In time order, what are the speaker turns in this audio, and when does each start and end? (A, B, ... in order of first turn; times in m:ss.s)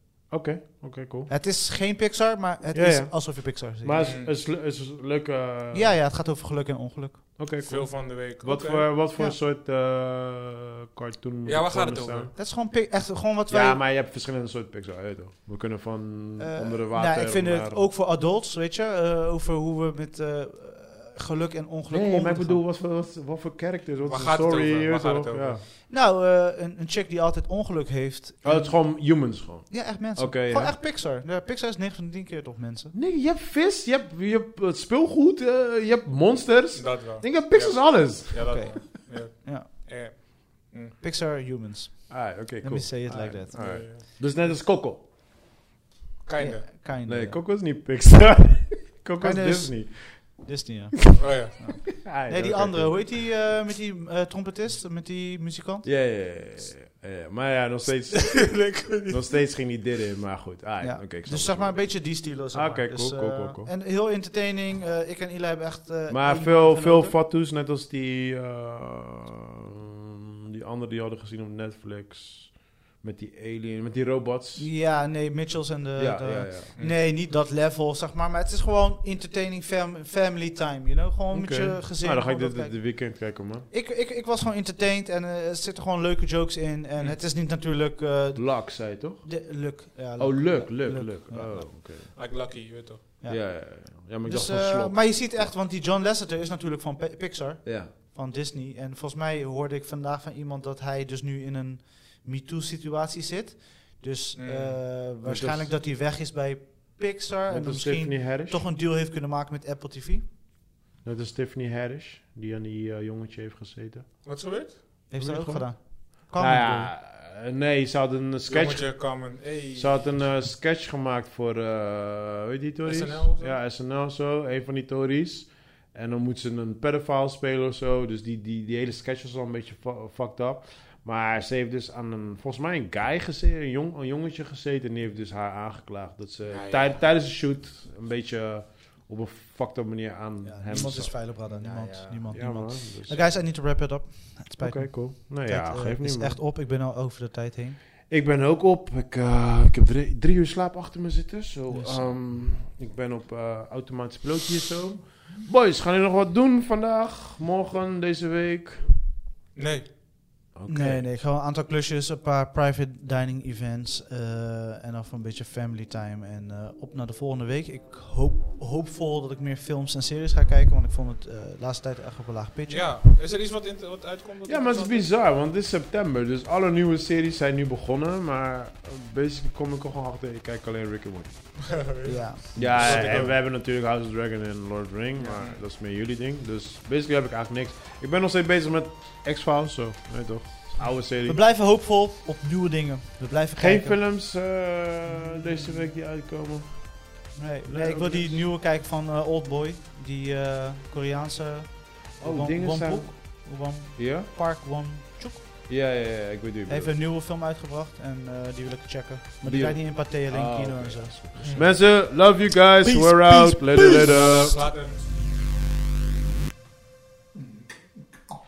0:00.3-0:01.3 A
0:01.3-0:04.1 B
0:02.7-0:06.0 A
0:04.0-0:04.3 C
0:05.7-0:07.2 B
0:07.4-0:12.3 A
0:07.6-0:08.9 C
0:11.4-0:12.3 C
0:12.3-0:13.8 B
0:13.5-0:17.8 A
0:16.4-0:22.6 B
0:21.9-0:25.6 A
0:24.0-0:25.6 C
0:25.9-0:29.1 B
0:28.4-0:30.8 A
0:29.7-0:32.9 B
0:32.9-0:38.5 A
0:36.7-0:41.0 C
0:38.4-0:39.7 B
0:41.0-0:43.6 B
0:42.1-0:45.0 A
0:43.1-0:44.0 C
0:46.2-0:46.6 C
0:46.4-0:47.4 B
0:47.0-0:50.4 A
0:49.2-0:55.9 B
0:51.2-0:51.6 C
0:52.0-0:53.0 A
0:55.8-1:01.8 A
0:58.1-0:59.2 C
1:00.8-1:07.2 B
1:02.5-1:03.7 A
1:06.1-1:14.7 A
1:14.6-1:23.1 B
1:16.0-1:16.7 A
1:21.3-1:23.6 A
1:23.7-1:31.7 B
1:28.4-1:29.3 A
1:30.2-1:32.1 A
1:32.1-1:33.0 C
1:33.2-1:50.2 B
1:33.2-1:35.5 A
1:37.6-1:37.9 A
1:44.3-1:44.8 C
1:45.2-1:45.7 A
1:47.5-1:48.6 A
1:51.0-1:54.1 A
1:54.2-1:54.9 C
1:55.1-1:56.9 B
1:55.2-1:59.2 A
1:58.5-2:00.2 C
1:59.8-2:21.1 A
2:02.8-2:03.6 C
2:16.5-2:17.0 C
2:20.4-2:27.8 B
2:21.8-2:22.1 C
2:22.3-2:23.2 A
2:24.6-2:26.4 A
2:28.1-2:38.9 A
2:31.7-2:32.0 B
2:39.6-2:39.9 C
2:40.5-2:41.2 A
2:40.7-2:53.0 B
2:52.7-2:55.1 C
2:54.4-3:01.3 A
3:01.6-3:03.3 C
3:02.0-3:03.2 B
3:02.5-3:11.4 A
3:05.2-3:05.6 C
3:11.2-3:14.0 B
3:13.6-3:17.1 A
3:17.4-3:25.4 B
3:17.7-3:18.4 A
3:22.2-3:23.1 A
3:24.0-3:24.3 A
3:25.7-3:26.9 A
3:26.7-3:31.3 B
3:29.4-3:34.6 A
3:31.4-3:31.7 C
3:32.8-3:34.1 B
3:33.8-3:35.0 C
3:37.4-3:37.6 C